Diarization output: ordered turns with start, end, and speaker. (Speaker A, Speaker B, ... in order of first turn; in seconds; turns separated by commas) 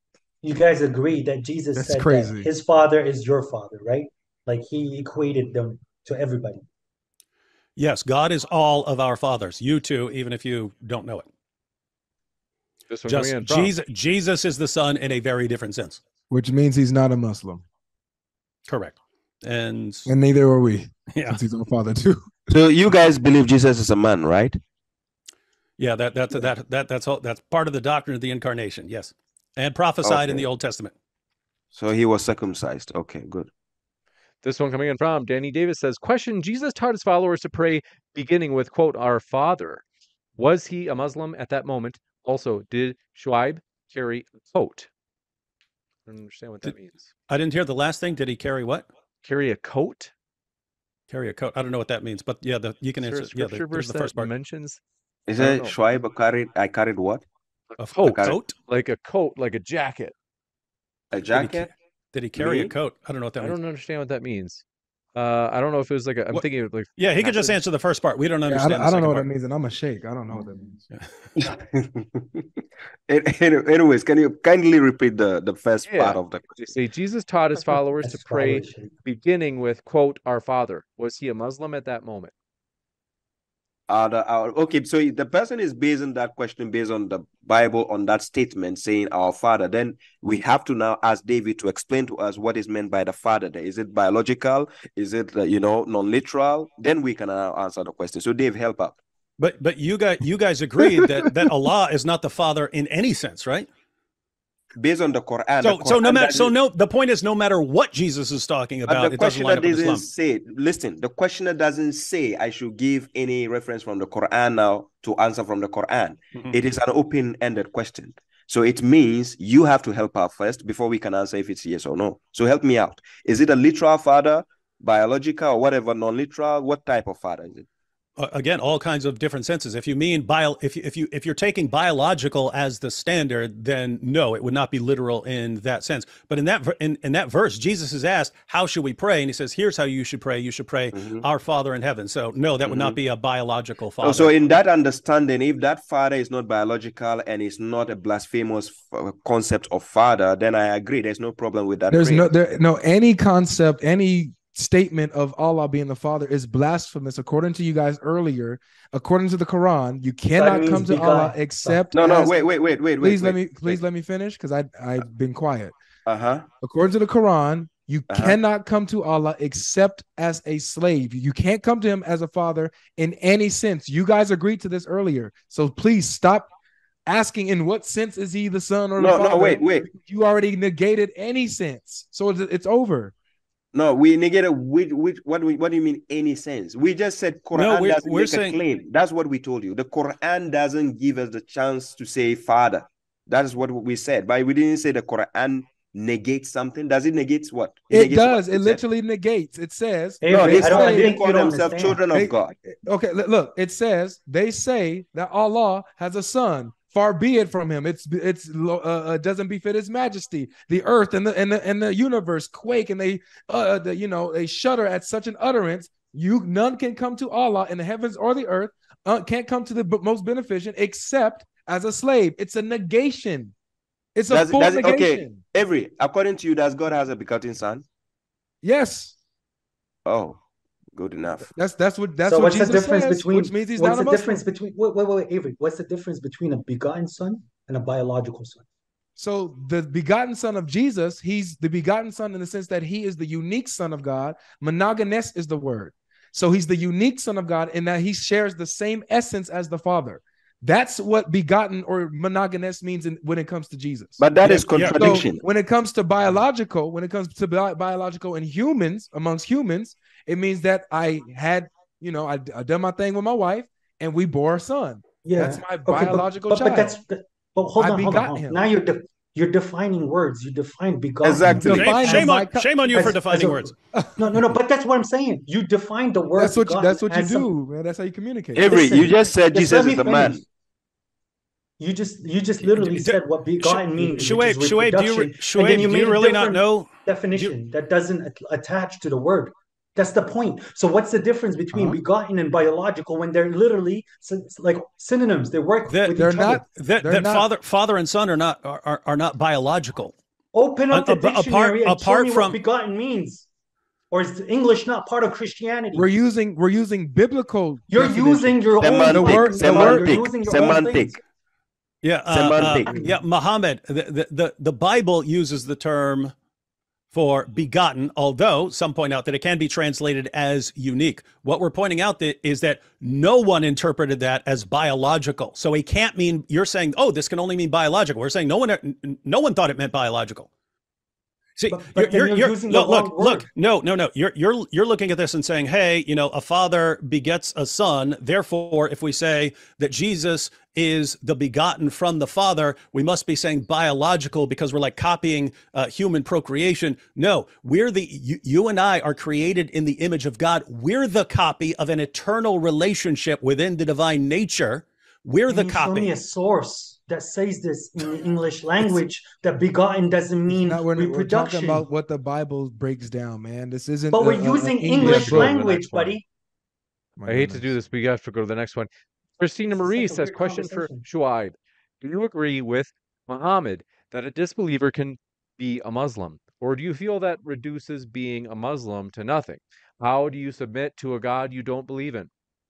Speaker A: 0.4-6.6, Speaker B: 1.8-2.5, Speaker C: 7.8-11.2, Speaker D: 12.9-13.7, Speaker C: 13.1-16.0, Speaker B: 16.3-17.6, Speaker C: 18.7-20.1, Speaker B: 20.1-22.3, Speaker C: 21.1-21.4, Speaker E: 22.5-24.6, Speaker C: 25.8-30.9, Speaker E: 30.0-30.4, Speaker E: 31.7-33.5, Speaker D: 34.4-39.8, Speaker D: 40.4-44.9, Speaker D: 46.0-47.1, Speaker C: 47.3-48.9, Speaker D: 49.2-50.1, Speaker C: 51.1-54.3, Speaker D: 53.0-54.8, Speaker E: 55.3-57.2, Speaker D: 55.4-55.8, Speaker D: 57.7-60.1, Speaker C: 57.8-58.5, Speaker E: 58.0-58.4, Speaker E: 61.1-61.7, Speaker C: 61.3-63.6, Speaker E: 62.4-62.7, Speaker D: 63.4-64.6, Speaker D: 65.1-67.6, Speaker C: 67.0-69.2, Speaker B: 68.5-70.8, Speaker E: 71.4-72.4, Speaker E: 73.1-76.7, Speaker D: 75.8-82.3, Speaker A: 78.0-78.9, Speaker E: 83.9-99.0, Speaker C: 99.4-103.7, Speaker E: 104.8-106.5, Speaker C: 105.6-110.0, Speaker E: 108.8-127.7, Speaker C: 128.2-144.3, Speaker E: 140.9-141.2, Speaker E: 142.6-143.0, Speaker E: 144.0-152.3, Speaker B: 151.9-162.4, Speaker A: 160.3-161.9, Speaker E: 161.9-163.8, Speaker B: 163.0-165.7, Speaker E: 166.1-166.5, Speaker B: 166.6-176.5, Speaker E: 168.1-168.4, Speaker B: 177.1-183.1, Speaker E: 179.0-179.9, Speaker E: 183.7-198.8, Speaker C: 187.5-188.6, Speaker B: 197.9-201.2, Speaker A: 200.2-202.0, Speaker E: 200.3-202.6, Speaker B: 202.1-223.5, Speaker B: 224.1-225.4, Speaker E: 224.3-227.8, Speaker B: 228.6-229.1, Speaker E: 230.1-230.4, Speaker E: 230.9-231.5, Speaker B: 231.5-234.4, Speaker A: 232.3-238.6, Speaker B: 239.2-266.9, Speaker E: 254.2-255.4, Speaker C: 254.7-255.1, Speaker A: 265.2-272.4, Speaker B: 267.8-268.7, Speaker E: 271.2-272.0, Speaker B: 271.4-273.1, Speaker C: 271.7-273.7, Speaker A: 272.9-277.5, Speaker B: 273.9-274.5, Speaker B: 276.4-278.8, Speaker E: 278.5-280.4, Speaker A: 278.6-280.4, Speaker A: 281.8-296.6, Speaker C: 282.6-287.5, Speaker B: 291.7-292.0, Speaker C: 295.9-300.1, Speaker B: 296.1-297.4, Speaker A: 300.5-303.5, Speaker C: 300.9-302.6, Speaker A: 304.1-306.1, Speaker B: 305.9-310.2, Speaker A: 307.9-311.2, Speaker E: 308.8-311.1, Speaker C: 312.0-316.3, Speaker E: 312.3-312.9, Speaker A: 312.9-313.1, Speaker C: 317.1-330.5, Speaker C: 331.6-356.1, Speaker A: 331.7-333.5, Speaker A: 355.5-361.8, Speaker B: 360.5-365.6, Speaker A: 364.1-366.2, Speaker D: 364.9-366.2, Speaker B: 367.2-367.7, Speaker D: 367.2-382.3, Speaker A: 369.7-371.0